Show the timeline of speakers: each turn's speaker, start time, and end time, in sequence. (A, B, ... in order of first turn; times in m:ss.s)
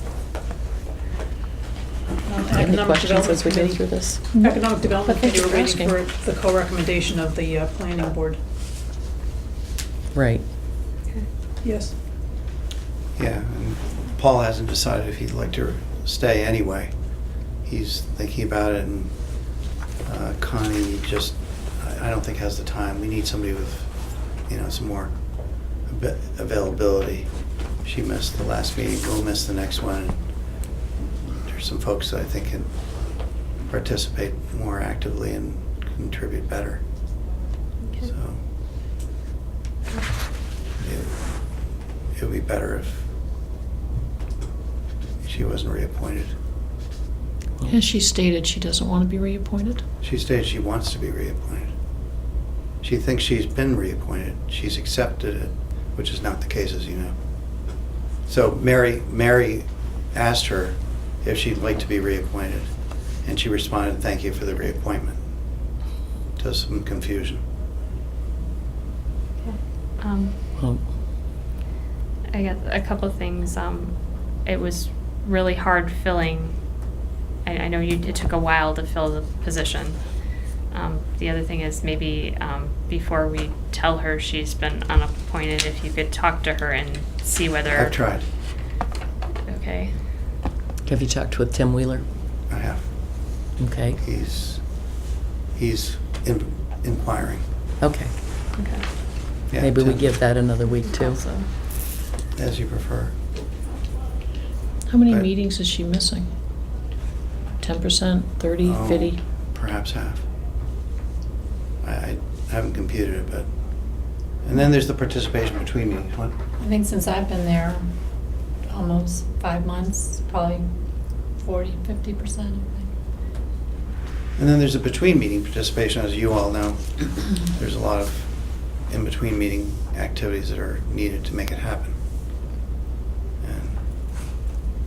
0:02.2-0:08.4 A
0:02.5-0:04.2 B
0:04.4-0:06.0 C
0:10.1-0:10.5 B
0:11.6-0:11.9 A
0:13.2-0:17.0 D
0:17.6-0:25.3 D
0:25.8-0:27.3 D
0:27.8-0:30.2 D
0:31.3-0:36.8 D
0:37.8-0:38.1 E
0:38.0-0:38.4 D
0:40.8-0:43.1 D
0:45.2-0:46.4 D
0:47.6-0:49.8 C
0:50.0-0:51.7 D
0:52.8-0:57.2 D
0:58.2-1:05.2 D
1:06.4-1:07.4 D
1:09.4-1:10.3 E
1:10.6-1:10.8 B
1:12.3-1:16.6 E
1:17.4-1:28.0 E
1:27.7-1:28.2 D
1:29.4-1:29.9 E
1:30.8-1:32.0 B
1:32.5-1:33.4 D
1:33.6-1:34.0 B
1:34.0-1:34.9 D
1:35.5-1:37.5 D
1:37.8-1:38.1 B
1:38.6-1:38.8 E
1:39.5-1:40.4 D
1:39.6-1:41.2 B
1:40.8-1:41.5 E
1:42.3-1:43.2 D
1:44.9-1:46.3 C
1:47.6-1:49.2 C
1:48.6-1:50.3 D
1:51.8-1:53.5 D
1:54.2-1:56.4 D
1:56.6-1:57.9 F
1:58.7-2:00.7 F
2:01.3-2:02.9 F
2:04.4-2:12.0 D
2:13.4-2:13.8 D